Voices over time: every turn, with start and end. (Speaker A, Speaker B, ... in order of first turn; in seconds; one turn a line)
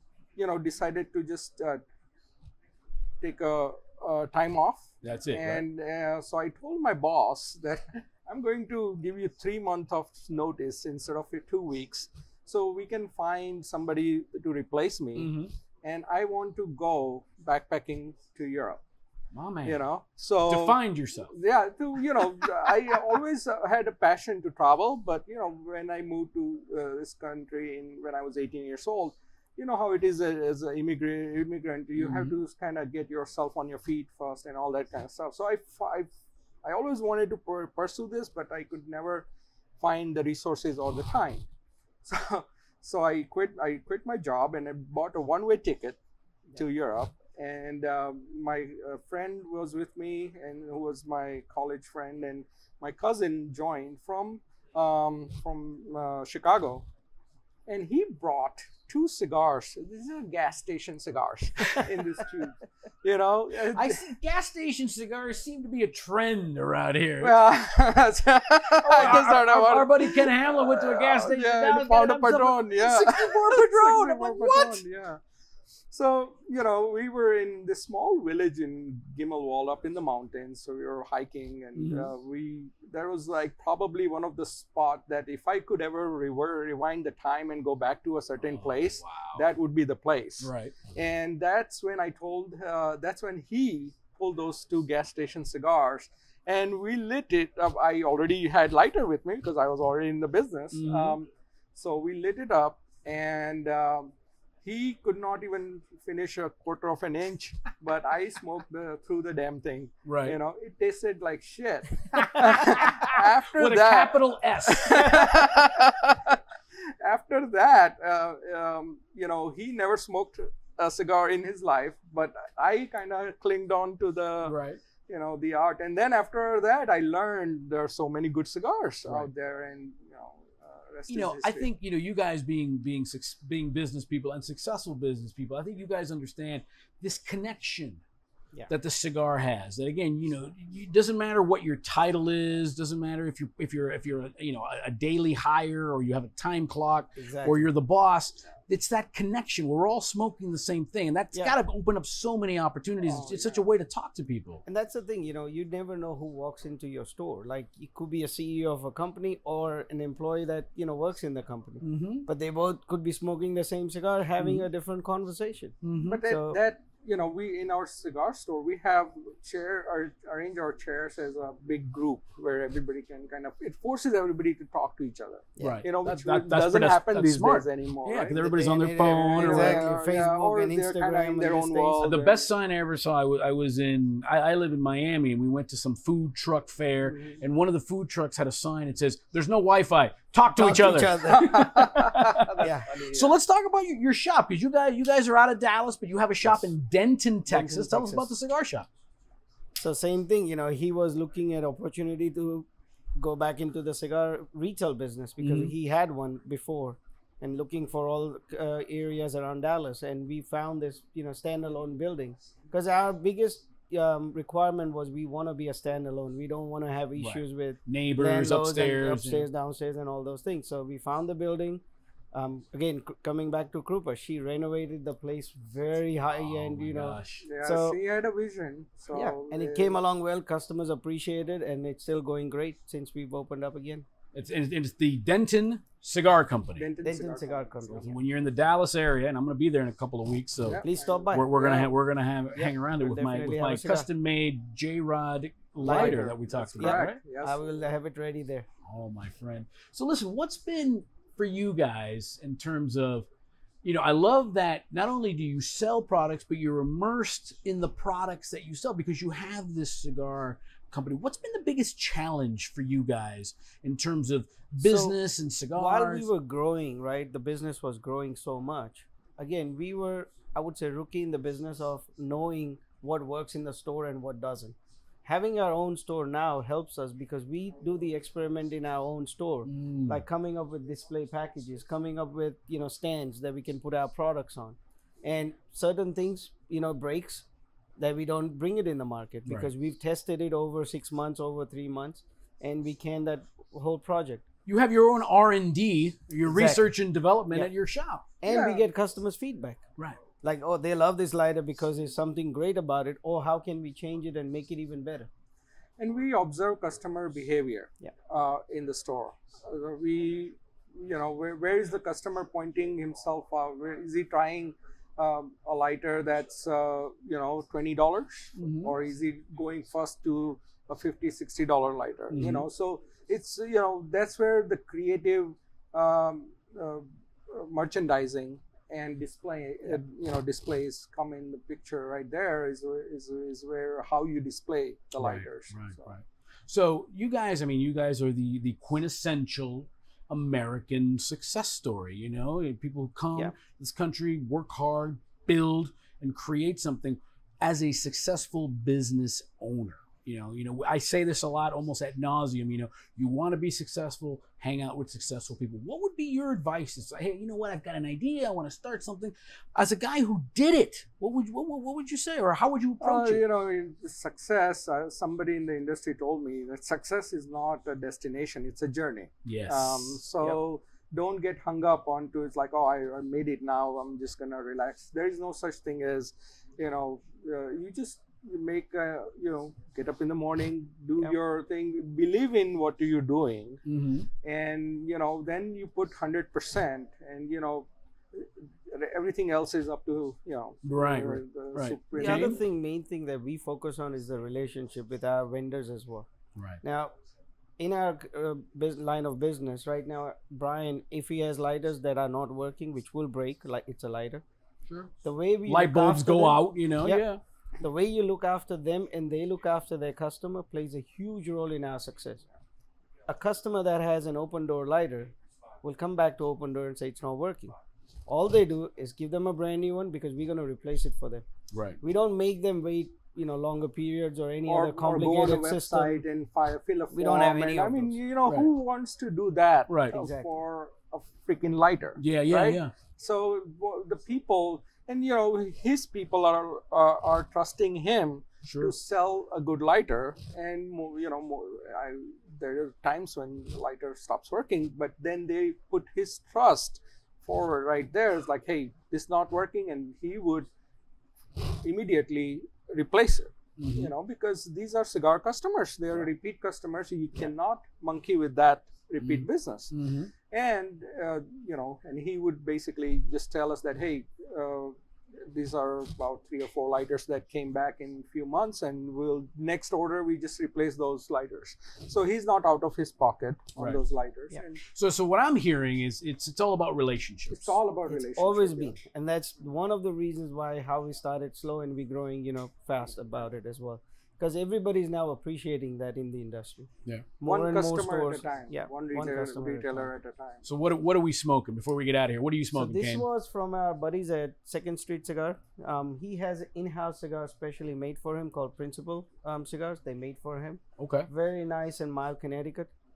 Speaker A: 0.4-1.8
Speaker A: 3.2-18.8
Speaker B: 5.0-5.6
Speaker B: 15.2-15.5
Speaker B: 19.3-19.8
Speaker A: 19.6-20.8
Speaker B: 20.5-21.3
Speaker A: 21.3-36.1
Speaker B: 32.0-32.4
Speaker A: 36.6-39.3
Speaker A: 39.8-41.5
Speaker A: 42.0-46.0
Speaker A: 46.6-56.9
Speaker A: 57.7-64.1
Speaker B: 63.7-67.4
Speaker A: 67.2-75.2
Speaker B: 68.8-74.8
Speaker A: 75.9-104.1
Speaker B: 81.8-82.1
Speaker B: 88.4-89.5
Speaker B: 90.4-90.8
Speaker B: 100.7-101.2
Speaker A: 104.6-116.4
Speaker B: 110.1-110.4
Speaker B: 112.1-115.7
Speaker A: 117.0-124.6
Speaker B: 124.4-124.8
Speaker A: 125.1-131.7
Speaker B: 131.1-138.0
Speaker B: 138.7-154.6
Speaker C: 147.2-147.7
Speaker A: 153.1-153.7
Speaker C: 154.7-166.6
Speaker B: 161.8-162.3
Speaker B: 164.4-164.7
Speaker B: 165.8-166.2
Speaker A: 166.0-182.5
Speaker B: 175.6-180.0
Speaker C: 178.5-182.1
Speaker B: 182.0-198.9
Speaker A: 187.1-187.4
Speaker C: 190.5-191.8
Speaker A: 191.2-193.3
Speaker C: 192.6-192.9
Speaker C: 196.4-196.7
Speaker C: 197.5-198.3
Speaker C: 199.8-228.0
Speaker B: 205.4-205.7
Speaker B: 217.2-219.5
Speaker B: 226.3-227.5
Speaker A: 227.4-230.0
Speaker C: 229.1-234.1
Speaker B: 234.3-236.9
Speaker A: 236.8-237.8
Speaker C: 237.0-238.2
Speaker B: 237.9-247.2
Speaker A: 240.7-241.9
Speaker C: 240.8-241.7
Speaker C: 242.5-244.1
Speaker A: 245.8-247.6
Speaker C: 245.8-248.7
Speaker B: 248.8-253.3
Speaker B: 253.8-266.3
Speaker C: 264.8-265.1
Speaker C: 265.7-287.4
Speaker B: 279.7-280.2
Speaker C: 288.0-294.4
Speaker B: 294.7-298.2
Speaker C: 296.5-296.9
Speaker C: 298.4-299.8
Speaker A: 298.5-298.9
Speaker C: 300.4-305.3
Speaker A: 306.0-336.1
Speaker B: 318.6-318.9
Speaker B: 322.3-322.7
Speaker B: 335.2-363.4
Speaker A: 363.0-383.8
Speaker B: 369.4-370.6
Speaker B: 383.9-384.3
Speaker A: 384.4-392.6
Speaker B: 390.9-392.6
Speaker C: 392.1-396.3
Speaker B: 396.6-396.8
Speaker C: 396.8-397.1
Speaker C: 397.8-404.4
Speaker B: 404.9-405.1
Speaker C: 405.2-407.2
Speaker B: 405.7-407.4
Speaker C: 407.8-412.5
Speaker C: 413.3-417.7
Speaker C: 418.3-421.4
Speaker B: 421.7-422.0
Speaker C: 422.0-426.2
Speaker A: 424.7-450.7
Speaker C: 427.1-428.2
Speaker B: 429.9-430.1
Speaker C: 430.1-430.5
Speaker B: 432.2-432.9
Speaker B: 438.7-438.9
Speaker A: 451.6-460.0
Speaker B: 453.8-454.1
Speaker B: 459.2-460.3
Speaker A: 460.5-474.8
Speaker B: 473.8-474.0
Speaker B: 474.9-477.8
Speaker A: 477.5-478.9
Speaker C: 478.1-486.9
Speaker C: 487.4-490.1
Speaker A: 487.4-490.6
Speaker B: 490.6-493.3
Speaker C: 492.8-502.9
Speaker B: 501.0-501.3